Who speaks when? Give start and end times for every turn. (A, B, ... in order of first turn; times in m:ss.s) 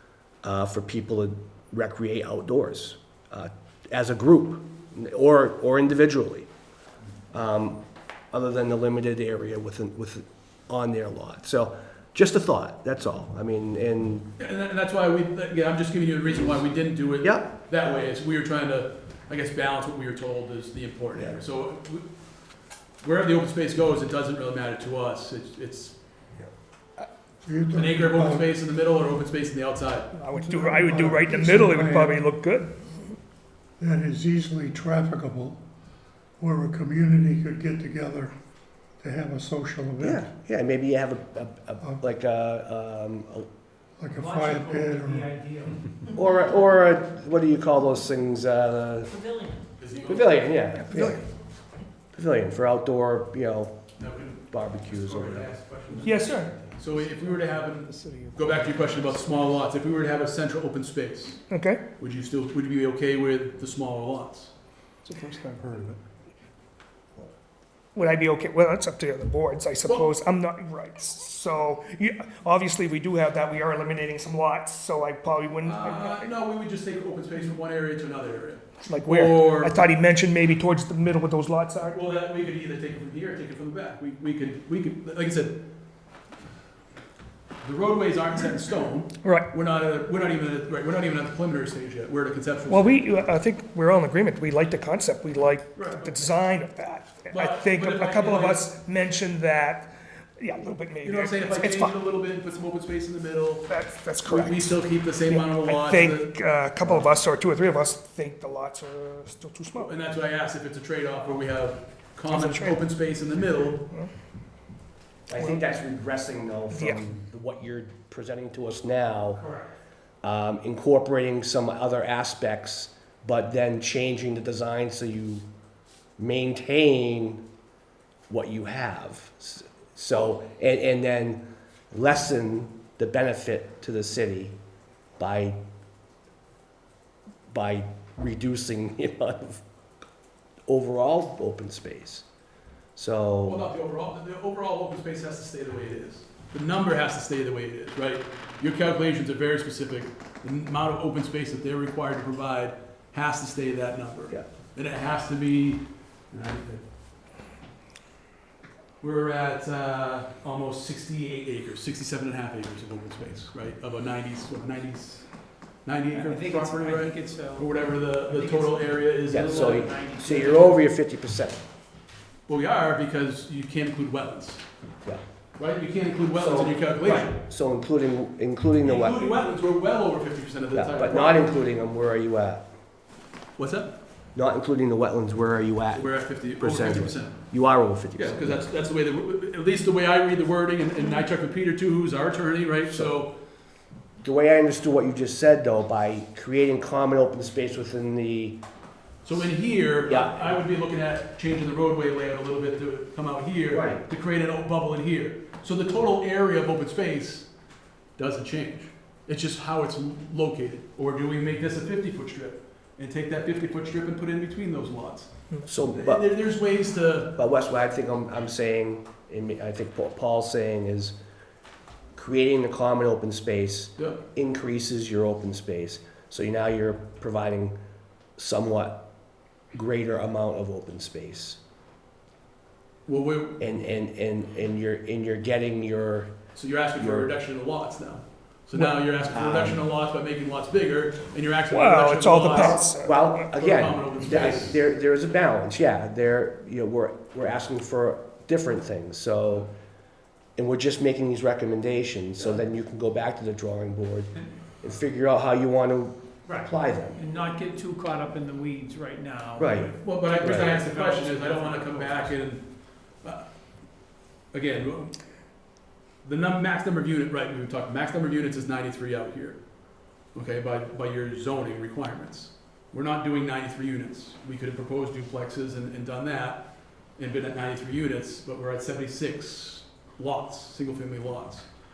0:00.4-0:06.5 A
0:07.3-0:14.3 A
0:14.4-0:22.1 B
0:17.2-0:17.5 A
0:23.0-0:26.0 B
0:27.4-0:28.5 C
0:27.7-0:30.1 B
0:30.1-0:32.7 D
0:30.3-0:32.2 C
0:33.8-0:35.6 C
0:36.4-0:38.3 C
0:39.0-0:40.3 C
0:40.0-0:43.5 A
0:44.0-0:45.3 C
0:44.2-0:45.8 E
0:46.1-0:49.2 A
0:49.1-0:49.6 E
0:49.8-0:50.5 B
0:50.1-0:51.2 A
0:50.8-0:51.2 D
0:52.1-0:53.8 A
0:54.0-1:01.4 B
0:54.5-0:55.5 A
0:56.0-0:59.2 D
1:01.5-1:01.8 D
1:02.0-1:04.5 B
1:07.9-1:16.3 D
1:09.8-1:10.1 B
1:15.6-1:19.8 B
1:18.8-1:22.0 D
1:21.9-1:25.6 B
1:27.6-1:33.1 B
1:29.2-1:29.5 D
1:32.7-1:42.0 D
1:35.8-1:36.2 B
1:37.3-1:38.6 B
1:41.0-1:43.7 B
1:43.7-1:49.9 D
1:44.2-1:46.3 B
1:46.8-1:47.1 A
1:49.7-1:53.8 B
1:52.3-1:52.8 D
1:55.3-1:59.4 A
1:56.7-1:57.0 D
1:59.4-1:59.7 E
2:00.2-2:05.4 A
2:06.2-2:07.4 A
2:08.3-2:14.6 A
2:15.2-2:15.6 A
2:17.5-2:19.6 A
2:20.7-2:22.2 A
2:23.0-2:23.6 A
2:23.4-2:36.8 B
2:39.0-2:45.3 B
2:45.8-2:49.9 B
2:46.1-2:50.8 E
2:49.3-2:51.6 A
2:52.5-2:54.6 B
2:55.6-2:57.4 B
2:56.4-2:59.3 A
2:58.8-3:01.5 B
3:00.7-3:02.6 A
3:03.6-3:04.0 B
3:04.3-3:08.6 A
3:05.9-3:07.4 B
3:08.1-3:13.3 B
3:14.2-3:18.6 A
3:19.2-3:27.5 B
3:20.1-3:20.6 A
3:23.7-3:24.0 A
3:28.2-3:37.3 B
3:35.6-3:36.3 A
3:37.4-3:41.2 A
3:42.1-3:47.8 A
3:48.4-3:49.1 A
3:49.7-3:51.6 A
3:53.0-3:53.6 B
3:53.6-3:56.4 A
3:56.5-4:02.9 B
3:57.0-3:57.3 A
3:59.3-3:59.8 A
4:01.7-4:03.6 D
4:03.0-4:09.7 A
4:03.4-4:04.8 B
4:10.6-4:17.2 A
4:16.5-4:22.4 E
4:19.6-4:20.7 A
4:20.0-4:23.6 B
4:24.5-4:25.2 B
4:26.2-4:29.6 B
4:30.3-4:41.7 B